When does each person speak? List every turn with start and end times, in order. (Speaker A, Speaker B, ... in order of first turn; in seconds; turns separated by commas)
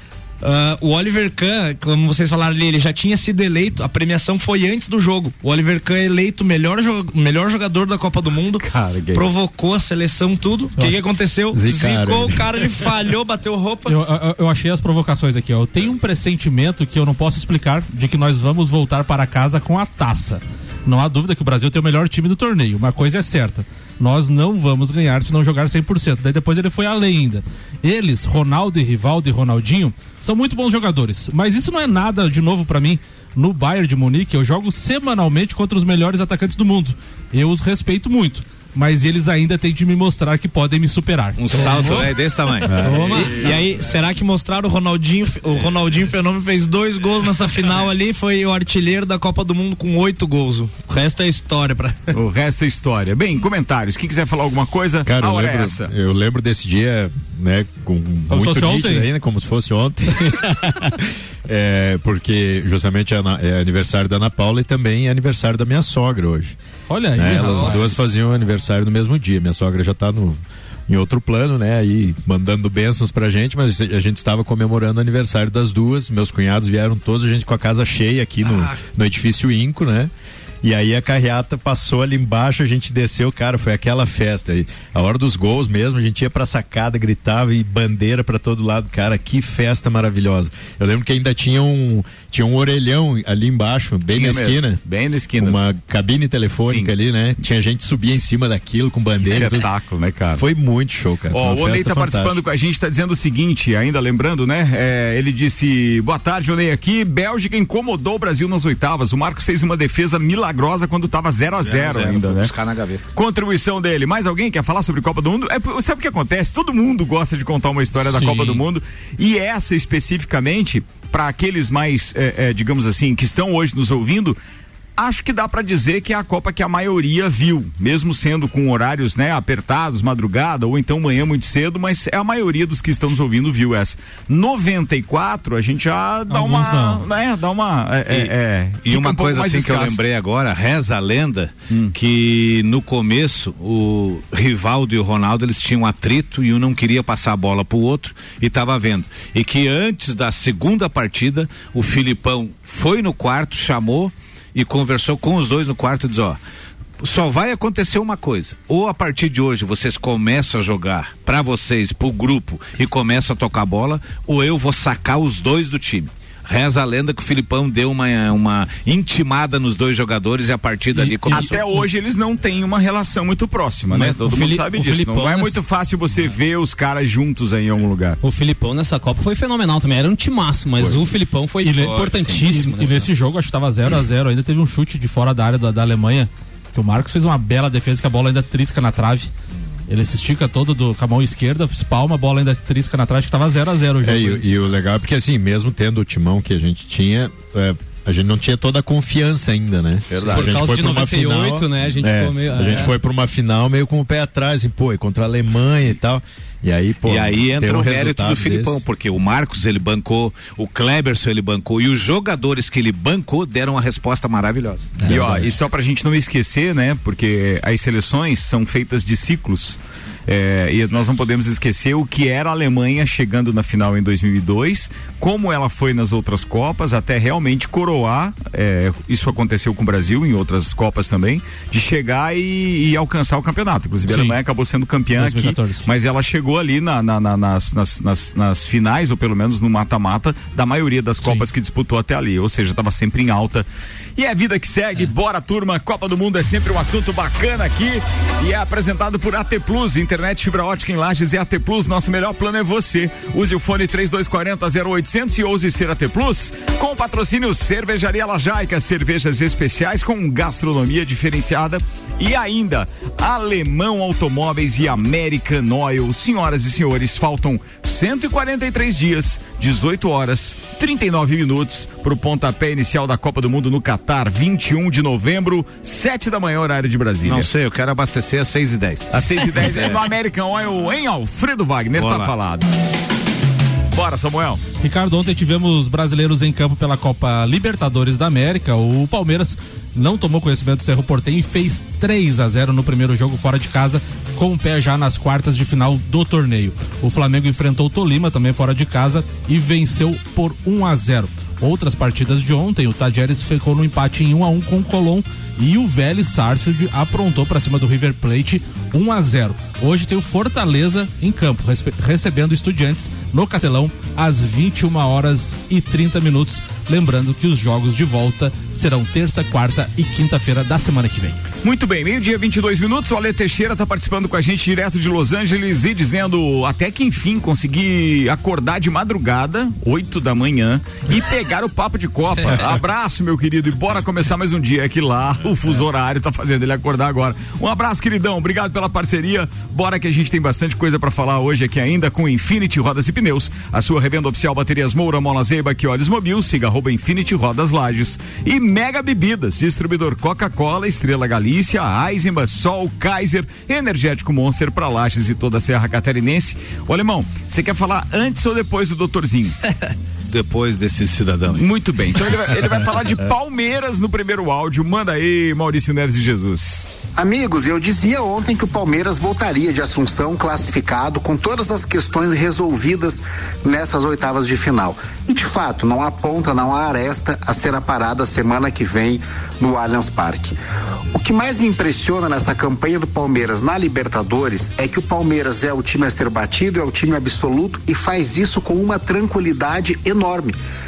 Speaker A: 0.4-14.0, Speaker B: 8.6-9.3, Speaker C: 10.8-11.0, Speaker D: 11.5-12.5, Speaker C: 13.9-41.8, Speaker E: 41.4-43.6, Speaker A: 41.5-42.1, Speaker F: 41.6-42.0, Speaker D: 42.6-43.3, Speaker A: 42.7-52.1, Speaker B: 52.1-55.9, Speaker D: 55.0-66.6, Speaker C: 58.3-59.1, Speaker C: 66.9-67.9, Speaker D: 67.1-80.1, Speaker D: 80.6-94.8, Speaker B: 94.1-95.6, Speaker D: 95.4-99.7, Speaker B: 96.6-96.9, Speaker B: 99.2-100.4, Speaker D: 100.3-102.4, Speaker B: 101.3-112.5, Speaker E: 111.6-113.0, Speaker B: 113.1-124.4, Speaker C: 118.0-118.6, Speaker B: 125.0-140.0, Speaker C: 136.3-137.1, Speaker E: 138.8-156.4, Speaker E: 157.0-171.6, Speaker C: 171.1-171.6, Speaker B: 171.3-178.2, Speaker F: 173.9-175.6, Speaker F: 178.2-183.1, Speaker C: 181.6-189.3, Speaker E: 182.0-182.5, Speaker C: 189.9-194.5, Speaker D: 194.0-208.8, Speaker E: 200.1-200.6, Speaker F: 200.3-202.9, Speaker E: 207.0-215.2, Speaker D: 215.0-215.5, Speaker B: 215.1-243.7, Speaker C: 234.1-234.4, Speaker C: 235.2-235.9, Speaker C: 241.2-241.5, Speaker B: 244.2-277.5, Speaker E: 277.2-280.0, Speaker B: 279.1-282.7, Speaker E: 281.9-282.3, Speaker B: 283.9-284.6, Speaker C: 284.8-321.4, Speaker B: 321.6-359.6, Speaker E: 360.2-361.7, Speaker B: 361.5-366.9, Speaker G: 367.1-380.5, Speaker G: 381.1-390.6